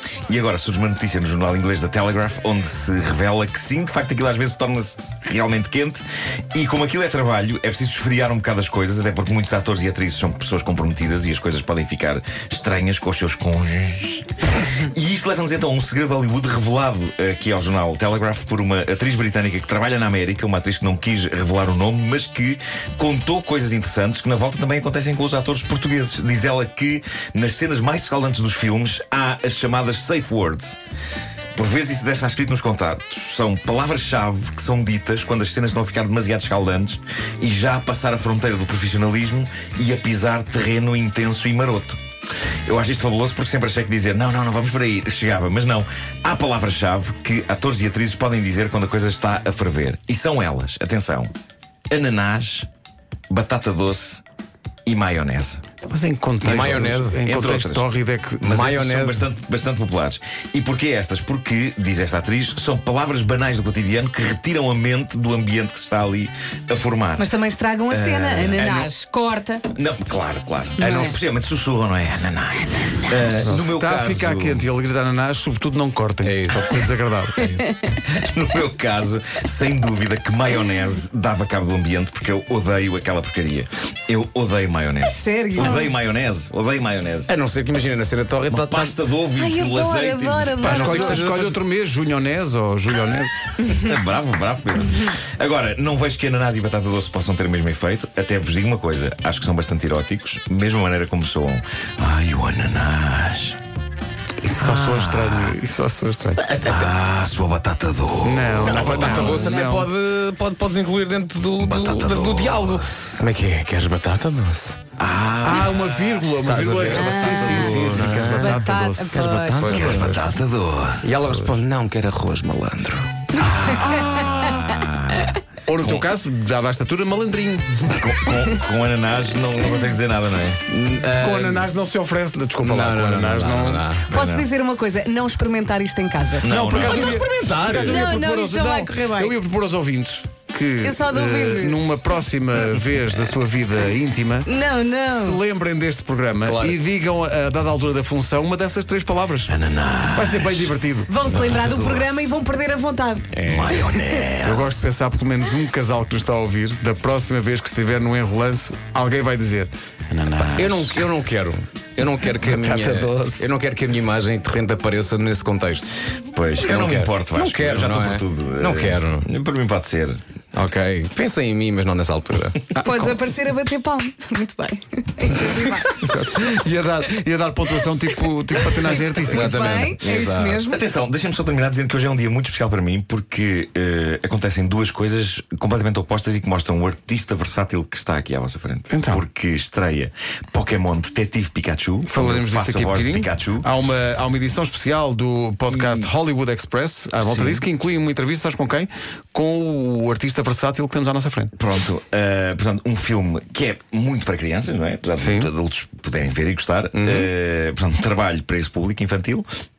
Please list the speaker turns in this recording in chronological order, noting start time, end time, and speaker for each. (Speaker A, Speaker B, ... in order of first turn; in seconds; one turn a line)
Speaker A: 0.3-30.8
Speaker A: 31.6-42.0
Speaker A: 42.7-51.3
Speaker A: 51.9-52.7
Speaker A: 53.3-54.2
Speaker A: 54.9-55.6
Speaker B: 55.9-59.0
Speaker C: 56.4-57.4
Speaker A: 57.3-57.9
Speaker C: 58.4-59.2
Speaker A: 58.6-67.3
Speaker D: 67.2-69.7
Speaker A: 67.9-68.9
Speaker A: 69.7-74.7
Speaker D: 70.8-71.2
Speaker B: 73.4-77.6
Speaker C: 76.2-76.8
Speaker A: 78.0-87.3
Speaker D: 85.1-85.9
Speaker C: 87.3-89.0
Speaker A: 88.5-91.2
Speaker D: 89.4-91.3
Speaker B: 90.6-93.5
Speaker C: 90.7-91.6
Speaker A: 93.7-103.6
Speaker B: 104.4-106.5
Speaker A: 104.6-105.6
Speaker C: 106.4-106.9
Speaker A: 106.6-109.6
Speaker B: 108.2-109.9
Speaker C: 108.6-114.8
Speaker D: 109.3-109.7
Speaker A: 111.6-113.2
Speaker A: 115.0-116.3
Speaker B: 115.4-120.4
Speaker C: 116.4-120.2
Speaker D: 116.8-119.7
Speaker A: 119.7-121.2
Speaker C: 121.0-123.3
Speaker A: 123.4-126.1
Speaker D: 123.4-124.6
Speaker B: 123.8-124.6
Speaker B: 125.7-128.0
Speaker A: 127.9-130.6
Speaker C: 130.7-131.7
Speaker B: 131.2-133.8
Speaker C: 132.6-134.1
Speaker A: 134.1-134.5
Speaker D: 134.1-136.5
Speaker A: 136.4-137.2
Speaker B: 136.4-144.5
Speaker C: 136.5-138.1
Speaker D: 137.8-139.4
Speaker D: 140.8-141.8
Speaker D: 144.5-145.4
Speaker B: 145.1-149.5
Speaker C: 146.4-146.8
Speaker A: 149.5-152.4
Speaker B: 150.1-151.2
Speaker D: 151.1-154.2
Speaker C: 153.3-153.8
Speaker A: 153.5-154.9
Speaker B: 154.4-161.0
Speaker C: 160.5-165.9
Speaker B: 162.4-163.5
Speaker A: 166.3-170.2
Speaker C: 166.6-169.3
Speaker C: 170.5-172.7
Speaker B: 172.8-173.2
Speaker D: 172.8-176.0
Speaker B: 175.9-179.7
Speaker D: 178.7-180.8
Speaker C: 179.1-180.7
Speaker A: 180.7-193.7
Speaker B: 188.9-189.2
Speaker B: 192.1-201.5
Speaker A: 195.7-196.1
Speaker A: 197.2-197.6
Speaker A: 201.6-209.5
Speaker B: 205.2-205.5
Speaker C: 206.9-207.3